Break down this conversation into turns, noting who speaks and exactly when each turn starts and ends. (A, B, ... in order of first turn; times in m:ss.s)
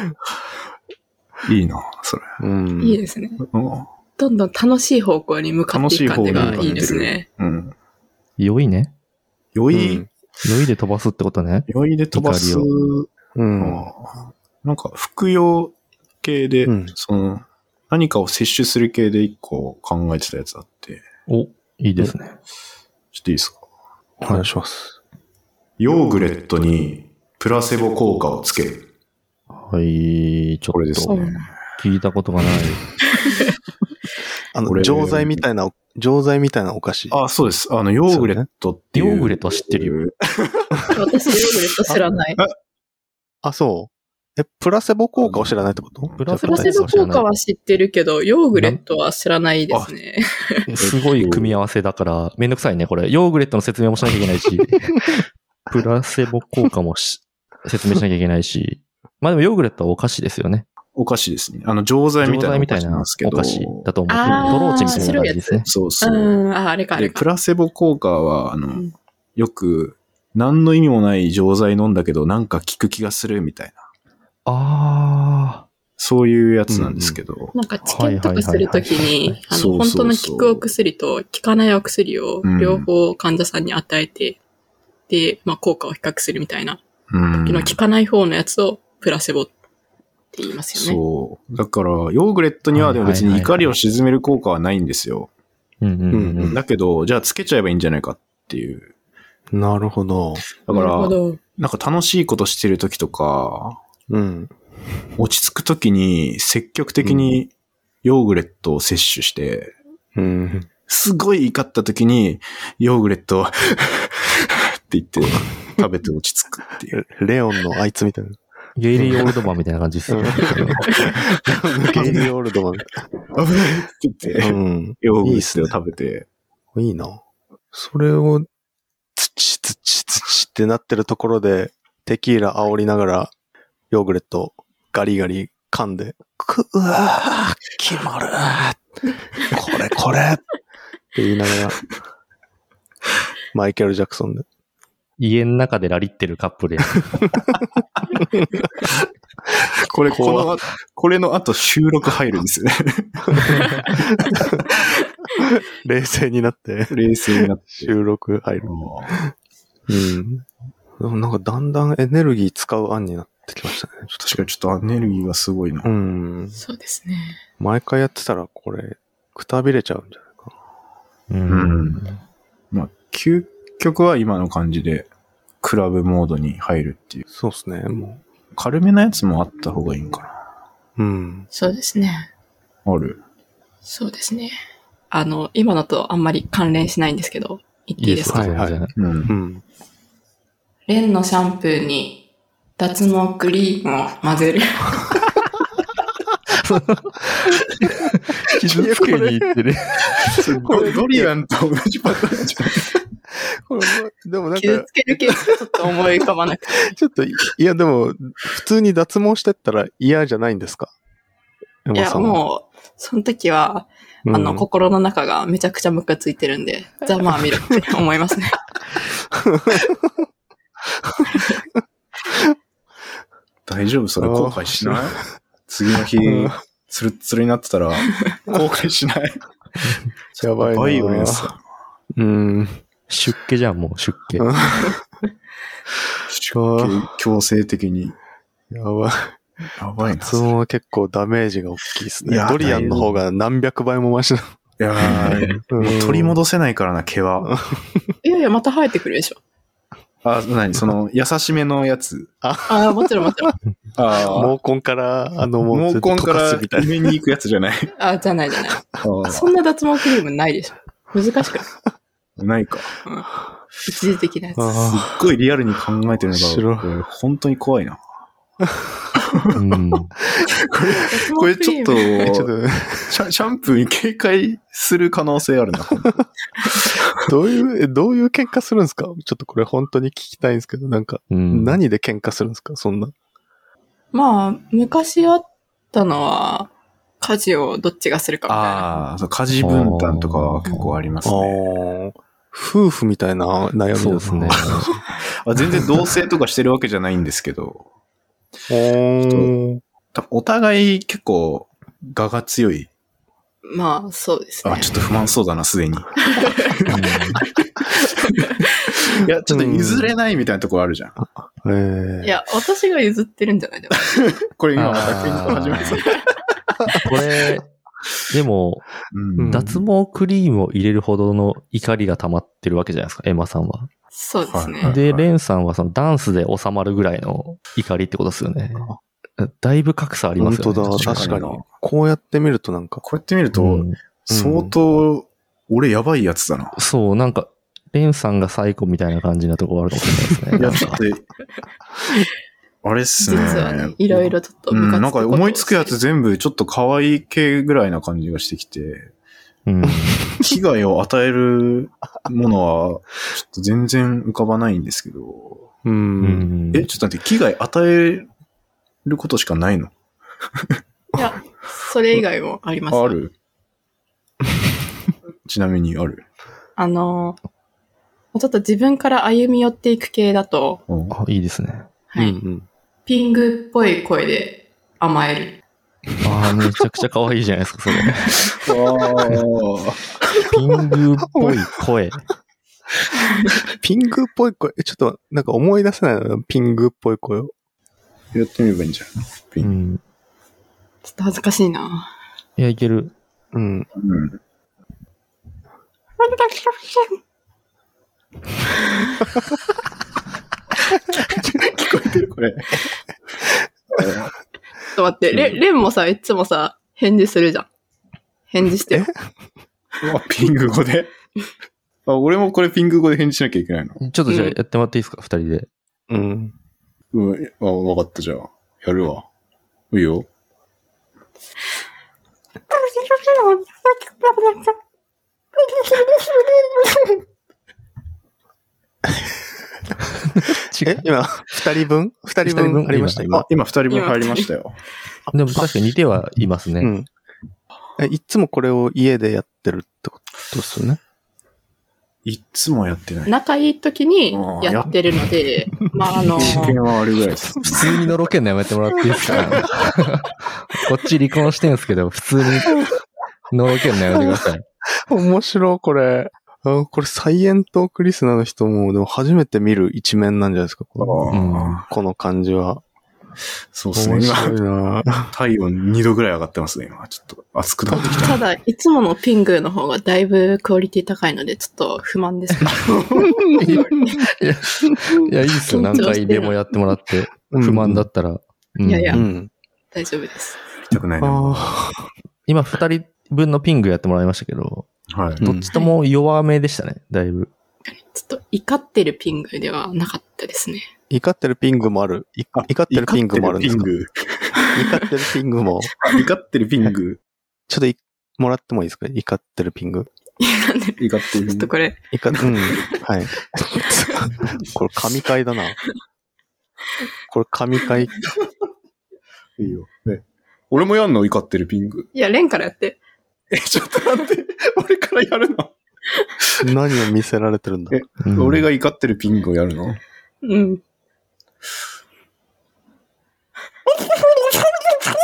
0:01.4-0:02.4 A
0:02.4-0:03.0 B
0:02.8-0:03.4 C
0:03.4-0:03.9 A
0:04.2-0:07.2 C
0:05.7-0:07.7 A
0:06.3-0:06.7 B
0:08.4-0:08.9 D
0:09.5-0:10.0 A
0:09.7-0:10.1 B
0:10.4-0:12.7 D
0:11.7-0:21.0 A
0:13.3-0:13.9 B
0:16.6-0:16.9 B
0:21.3-0:22.4 D
0:23.1-0:23.6 A
0:24.2-0:25.0 B
0:25.8-0:28.8 A
0:29.5-0:32.8 D
0:30.7-0:31.5 A
0:31.0-0:31.5 C
0:34.5-0:37.2 B
0:34.6-0:35.4 A
0:37.1-0:41.0 A
0:38.1-0:38.4 B
0:38.9-0:40.0 D
0:40.9-0:42.4 C
0:43.4-0:46.9 B
0:45.2-0:46.4 A
0:46.2-0:47.3 D
0:46.4-0:50.7 C
0:50.7-1:00.6 D
0:50.8-0:51.5 A
1:00.9-1:05.1 A
1:02.2-1:05.7 D
1:04.1-1:07.2 C
1:05.6-1:06.4 A
1:07.0-1:08.8 A
1:09.4-1:13.8 A
1:14.4-1:15.6 D
1:16.0-1:17.5 A
1:16.7-1:17.2 B
1:17.5-1:24.4 C
1:17.8-1:19.4 D
1:19.5-1:20.6 A
1:22.4-1:22.9 A
1:25.1-1:26.8 C
1:27.1-1:27.8 A
1:27.4-1:29.5 C
1:30.3-1:31.0 C
1:30.7-1:35.3 A
1:32.7-1:33.7 D
1:35.8-1:36.6 D
1:36.1-1:36.6 B
1:36.5-1:38.9 A
1:39.5-1:40.4 B
1:40.5-1:43.8 A
1:40.7-1:41.4 C
1:44.1-1:44.5 B
1:45.2-1:47.5 A
1:47.0-1:47.3 B
1:48.0-1:49.7 A
1:50.1-1:50.7 B
1:50.9-1:57.0 A
1:56.9-1:58.4 B
1:58.8-2:01.0 D
1:58.9-1:59.5 B
2:00.1-2:03.0 B
2:02.0-2:02.2 A
2:03.3-2:06.3 A
2:04.4-2:05.7 B
2:06.7-2:07.2 B
2:07.7-2:08.5 B
2:09.2-2:13.3 B
2:13.9-2:18.8 B
2:19.4-2:20.4 B
2:21.1-2:21.8 B
2:23.5-2:24.4 B
2:25.2-2:27.1 D
2:29.8-2:33.6 A
2:30.1-2:30.5 B
2:33.9-2:34.6 B
2:35.4-2:37.0 B
2:36.9-2:37.9 A
2:37.7-2:39.3 B
2:38.6-2:39.2 A
2:39.9-2:40.4 B
2:41.0-2:44.3 B
2:44.2-2:45.9 A
2:45.8-2:46.6 B
2:46.6-2:47.4 C
2:47.6-2:50.5 B
2:51.3-2:52.2 D
2:51.5-2:52.0 A
2:52.7-2:55.1 A
2:55.6-2:57.2 A
2:57.3-2:58.2 B
2:58.6-3:00.4 A
3:01.0-3:01.5 B
3:01.5-3:02.3 C
3:02.8-3:03.2 A
3:03.8-3:04.5 C
3:05.1-3:08.6 C
3:08.0-3:08.9 D
3:08.3-3:08.8 B
3:09.0-3:09.3 A
3:09.3-3:09.6 B
3:10.9-3:12.2 C
3:12.8-3:15.1 C
3:16.6-3:20.4 D
3:18.6-3:19.6 B
3:20.3-3:22.9 A
3:20.5-3:21.3 B
3:23.3-3:25.9 B
3:24.6-3:26.9 C
3:26.8-3:30.9 B
3:31.8-3:32.4 B
3:31.9-3:38.7 C
3:34.3-3:34.6 B
3:39.5-3:39.9 B
3:43.6-3:51.6 A
3:44.2-3:45.2 B
3:46.2-3:46.6 B
3:50.4-3:51.5 B
3:52.1-3:52.8 B
3:53.1-3:54.5 D
3:54.4-3:55.0 B
3:56.3-3:58.2 A
3:56.5-3:57.0 B
3:58.7-3:59.4 B
3:59.8-4:00.5 A
4:00.2-4:06.4 B
4:02.2-4:03.2 A
4:04.8-4:07.5 A
4:07.4-4:08.1 B
4:08.2-4:09.4 C
4:10.2-4:12.3 A
4:12.4-4:13.5 B
4:12.7-4:13.6 C
4:14.0-4:14.6 A
4:14.3-4:17.1 B
4:15.7-4:17.9 A
4:18.0-4:21.7 C
4:19.0-4:19.5 A
4:22.4-4:22.9 A
4:23.8-4:25.0 C
4:24.6-4:25.1 B
4:24.8-4:28.0 A
4:26.3-4:26.9 B
4:29.2-4:29.5 A
4:29.5-4:30.1 D
4:30.6-4:32.5 A
4:31.1-4:32.2 C
4:32.2-4:33.1 B
4:33.1-4:36.2 A
4:37.2-4:43.1 B
4:41.3-4:41.8 D
4:44.1-4:49.0 C
4:48.5-4:51.6 A
4:49.6-4:50.9 D
4:51.2-4:55.0 B
4:54.0-4:54.9 D
4:54.5-4:57.8 A
4:58.7-4:59.8 B
4:59.2-4:59.5 A
5:00.1-5:02.9 A
5:03.6-5:04.9 C
5:04.6-5:07.0 A
5:06.3-5:06.8 C
5:06.9-5:07.4 D
5:07.6-5:08.5 A
5:09.0-5:11.2 A
5:09.5-5:10.1 B
5:11.2-5:12.3 B
5:12.2-5:14.4 C
5:14.4-5:16.2 A
5:14.8-5:16.0 D
5:17.0-5:17.7 D
5:18.3-5:18.9 D
5:19.1-5:19.7 A
5:19.4-5:19.8 B
5:19.5-5:23.9 D
5:24.1-5:25.0 C
5:24.4-5:25.3 A
5:24.8-5:31.3 D
5:30.4-5:33.0 B
5:30.9-5:31.6 A
5:33.0-5:36.8 A
5:33.5-5:34.0 D
5:34.3-5:34.7 B
5:36.8-5:41.0 D
5:40.6-5:41.2 A
5:42.8-5:49.1 A
5:43.2-5:46.0 C
5:49.6-5:50.2 D
5:49.8-5:50.4 B
5:50.4-5:55.7 A
5:55.8-5:56.5 B
5:56.2-5:56.9 D
5:56.7-5:58.3 A
5:59.0-5:59.9 A
6:01.2-6:03.2 C
6:02.9-6:03.3 A
6:05.4-6:06.2 A
6:06.8-6:07.4 C
6:08.3-6:10.8 C
6:10.9-6:11.2 A
6:11.1-6:11.9 D
6:12.1-6:12.4 C
6:12.2-6:12.6 B
6:13.0-6:15.5 C
6:16.2-6:18.6 D
6:18.6-6:20.0 A
6:20.4-6:22.3 D
6:21.3-6:21.7 B
6:23.8-6:27.5 B
6:28.3-6:29.8 A
6:29.6-6:30.0 D
6:31.0-6:32.1 C
6:32.6-6:33.1 D
6:33.5-6:33.9 B
6:34.0-6:34.4 A
6:36.2-6:37.1 C
6:41.3-6:42.8 A
6:43.9-6:44.3 A
6:44.9-6:47.7 C
6:45.3-6:45.6 A
6:48.5-6:49.1 C
6:50.0-6:51.1 A
6:52.0-6:54.0 A
6:54.0-6:55.7 D
6:54.3-6:54.6 C
6:56.1-6:56.5 B
6:57.1-6:59.2 A
6:59.9-7:00.3 A
7:02.7-7:04.8 C
7:05.6-7:07.2 C
7:10.3-7:11.1 D
7:10.8-7:13.5 B
7:12.4-7:13.4 D
7:13.4-7:14.8 A
7:13.9-7:14.5 C
7:15.3-7:15.6 B
7:15.3-7:16.9 D
7:16.8-7:17.1 B
7:18.0-7:21.0 B
7:22.2-7:23.3 A
7:23.3-7:26.8 C
7:24.3-7:24.9 A
7:26.3-7:27.9 A
7:27.6-7:32.8 D
7:33.5-7:34.6 D
7:34.1-7:34.4 B
7:35.0-7:41.2 B
7:41.0-7:41.9 A
7:41.3-7:41.8 D
7:41.9-7:42.8 B
7:43.7-7:44.6 A
7:43.9-7:45.3 B
7:45.3-7:48.4 A
7:48.0-7:54.2 C
7:52.7-7:53.3 A
7:53.5-7:59.2 D
7:55.7-7:56.1 B
7:55.9-7:56.6 C
7:57.5-7:58.1 B
7:58.8-7:59.2 C
7:59.1-7:59.5 B
7:59.9-8:00.6 C
8:00.8-8:01.8 A
8:01.2-8:02.1 B
8:02.5-8:07.5 D
8:05.1-8:05.4 A
8:05.4-8:05.7 B
8:07.9-8:10.9 C
8:11.1-8:13.9 B
8:12.5-8:14.6 A
8:14.7-8:15.9 B
8:16.0-8:17.2 A
8:17.7-8:20.1 B
8:20.4-8:22.0 C
8:21.0-8:21.7 A
8:22.1-8:25.8 B
8:22.3-8:22.9 A
8:24.4-8:24.7 A
8:27.3-8:28.2 B
8:29.6-8:32.1 A
8:32.1-8:33.0 C
8:33.5-8:35.7 A
8:36.6-8:37.9 B
8:37.9-8:40.0 A
8:38.2-8:38.6 D
8:40.4-8:40.8 C